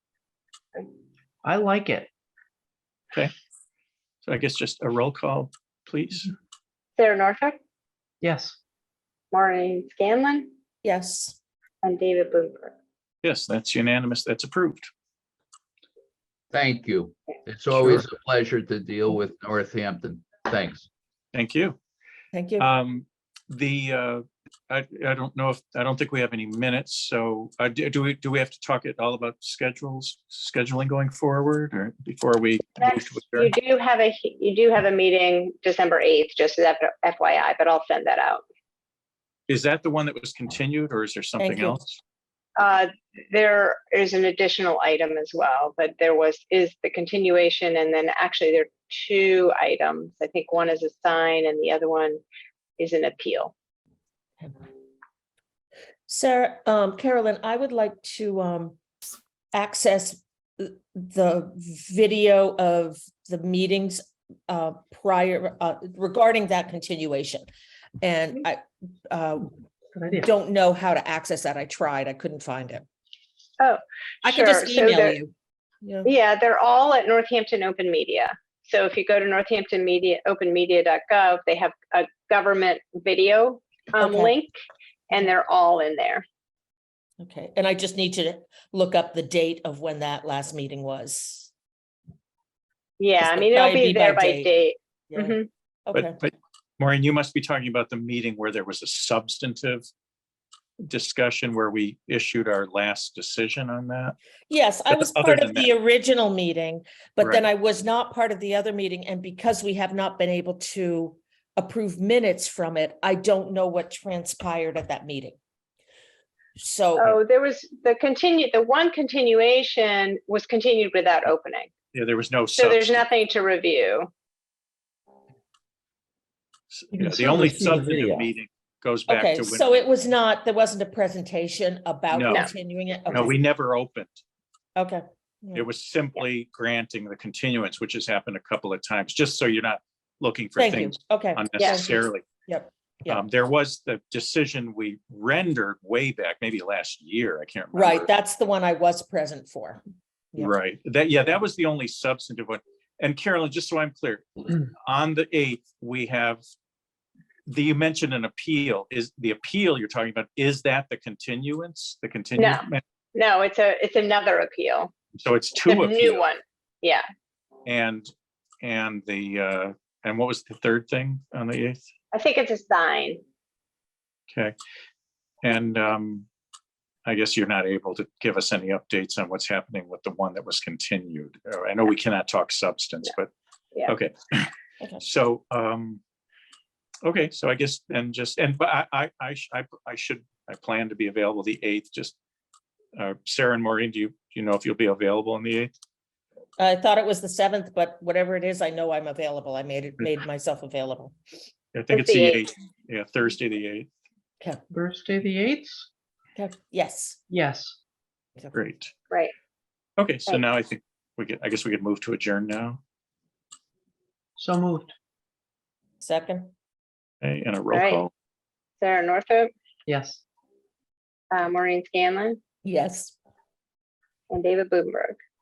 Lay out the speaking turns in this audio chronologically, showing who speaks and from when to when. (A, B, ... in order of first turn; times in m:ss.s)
0:01.4-0:02.1 A
0:04.2-0:06.3 B
0:07.0-0:07.6 C
0:08.2-0:08.6 A
0:09.3-0:10.5 C
0:10.8-0:11.4 D
0:11.8-0:12.7 C
0:13.2-0:14.9 B
0:16.5-0:20.9 E
0:21.3-0:21.8 B
0:22.3-0:22.7 D
0:22.6-0:33.5 B
0:32.8-0:38.4 C
0:39.5-0:42.0 B
0:41.4-0:41.9 D
0:42.6-0:52.2 C
0:52.8-0:53.5 C
0:56.1-0:58.8 D
0:59.5-1:07.5 D
1:08.0-1:09.5 D
1:10.0-1:10.3 A
1:10.1-1:12.8 D
1:13.6-1:15.2 C
1:14.2-1:16.1 D
1:16.0-1:24.5 C
1:24.0-1:24.3 D
1:25.1-1:26.2 C
1:27.2-1:31.5 D
1:33.0-1:35.5 C
1:33.2-1:34.5 D
1:35.1-1:36.2 D
1:35.9-1:39.9 B
1:40.9-1:44.2 B
1:44.5-1:55.4 D
1:44.9-1:45.7 B
1:56.6-1:57.1 D
1:57.0-2:01.7 C
2:01.9-2:03.0 B
2:02.6-2:04.1 C
2:06.7-2:09.8 B
2:06.9-2:08.3 A
2:09.1-2:13.4 D
2:12.1-2:12.5 B
2:13.1-2:14.1 B
2:14.8-2:15.7 D
2:15.6-2:22.2 B
2:20.6-2:23.2 D
2:23.1-2:28.1 B
2:27.7-2:29.8 D
2:30.4-2:36.4 B
2:37.5-2:42.8 B
2:42.4-2:42.6 C
2:43.2-2:44.9 C
2:45.2-2:46.3 B
2:45.7-2:47.0 C
2:47.6-2:48.1 B
2:48.6-2:51.8 B
2:52.1-2:53.2 C
2:55.4-2:56.3 B
2:57.1-3:03.3 B
3:03.9-3:06.0 B
3:07.0-3:12.2 B
3:13.0-3:15.7 B
3:16.6-3:21.2 D
3:21.7-3:23.9 B
3:21.9-3:22.5 C
3:24.7-3:25.9 A
3:26.4-3:27.2 D
3:27.3-3:27.8 A
3:28.5-3:28.9 B
3:30.0-3:32.8 B
3:34.4-3:34.9 A
3:36.0-3:36.5 D
3:37.2-3:38.1 B
3:37.7-3:38.0 C
3:38.8-3:39.5 C
3:39.9-3:40.2 A
3:41.3-3:42.4 C
3:42.6-3:43.1 D
3:44.3-3:45.2 C